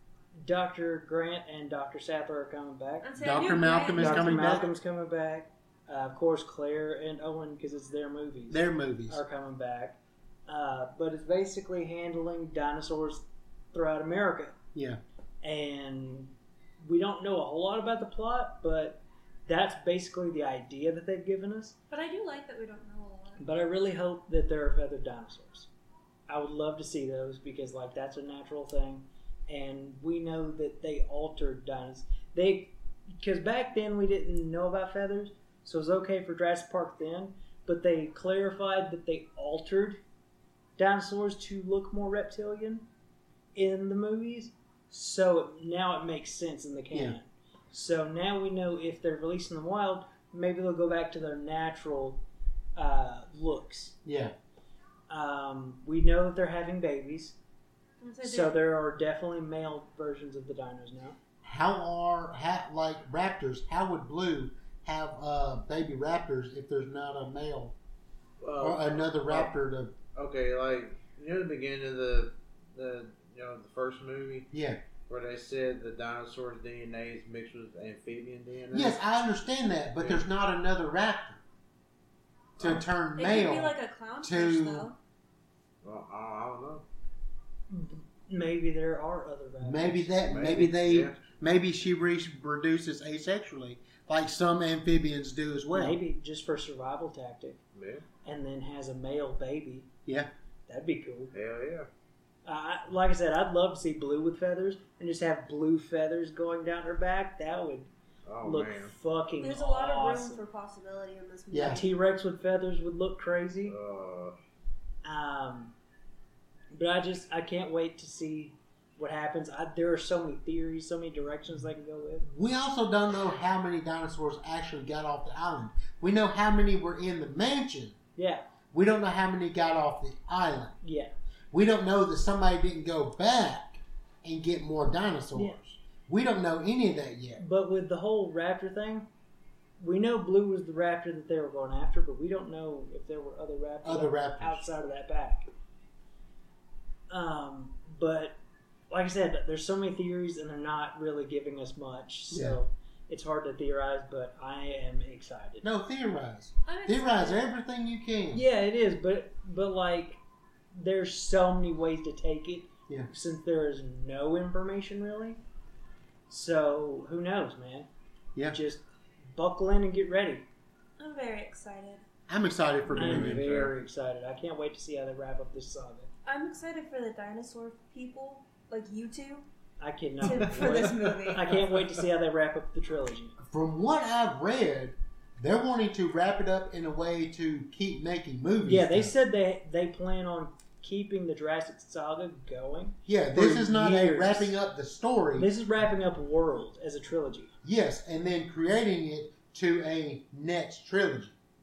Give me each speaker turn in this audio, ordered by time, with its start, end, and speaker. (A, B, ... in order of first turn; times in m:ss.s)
0:00.3-0:03.1 A
0:03.0-0:04.7 B
0:03.2-0:04.7 C
0:03.9-0:14.6 A
0:08.5-0:09.2 C
0:14.7-0:15.0 C
0:15.4-0:21.8 A
0:21.9-0:23.4 B
0:23.4-0:25.7 A
0:26.3-0:40.0 A
0:40.8-0:42.9 A
0:43.5-0:52.2 A
0:52.8-0:54.0 A
0:54.0-0:54.3 C
0:55.1-0:57.4 A
0:58.0-0:58.5 B
0:58.2-1:01.2 A
1:01.4-1:07.7 C
1:08.4-1:09.5 D
1:08.6-1:09.9 C
1:10.1-1:14.5 D
1:14.5-1:14.8 C
1:15.1-1:19.0 D
1:18.7-1:21.4 C
1:22.6-1:22.8 D
1:22.6-1:24.9 C
1:23.2-1:25.0 B
1:25.8-1:26.8 D
1:27.7-1:30.1 A
1:29.6-1:36.0 C
1:30.2-1:31.2 D
1:35.7-1:37.6 A
1:37.7-1:38.0 D
1:38.2-1:39.9 A
1:40.7-1:41.3 A
1:41.3-1:41.9 D
1:42.4-1:47.9 A
1:48.2-1:48.9 D
1:48.4-1:50.4 A
1:49.4-1:51.9 B
1:51.5-1:51.8 C
1:51.6-1:53.7 A
1:53.7-1:54.4 D
1:55.0-1:55.7 A
1:56.7-2:02.2 A
2:02.2-2:08.0 C
2:08.2-2:08.5 A
2:08.7-2:10.8 C
2:10.8-2:11.1 A
2:11.5-2:17.4 C
2:17.4-2:19.1 A
2:19.8-2:25.5 A
2:23.8-2:24.6 C
2:27.1-2:28.4 A
2:28.9-2:35.7 A
2:32.3-2:32.6 C
2:35.6-2:38.4 C
2:36.6-2:37.4 B
2:38.3-2:40.2 A
2:40.7-2:45.4 A
2:46.3-2:47.9 A
2:48.5-2:48.8 A
2:49.3-2:50.4 A
2:51.0-2:52.0 B
2:52.3-2:53.5 C
2:52.9-2:53.7 D
2:52.9-2:56.1 A
2:56.2-2:59.4 B
2:59.8-3:03.4 A
3:00.2-3:01.6 B
3:00.4-3:01.9 D
3:03.4-3:09.1 C
3:08.6-3:14.5 A
3:13.0-3:15.5 C
3:15.4-3:17.5 A
3:17.6-3:21.3 C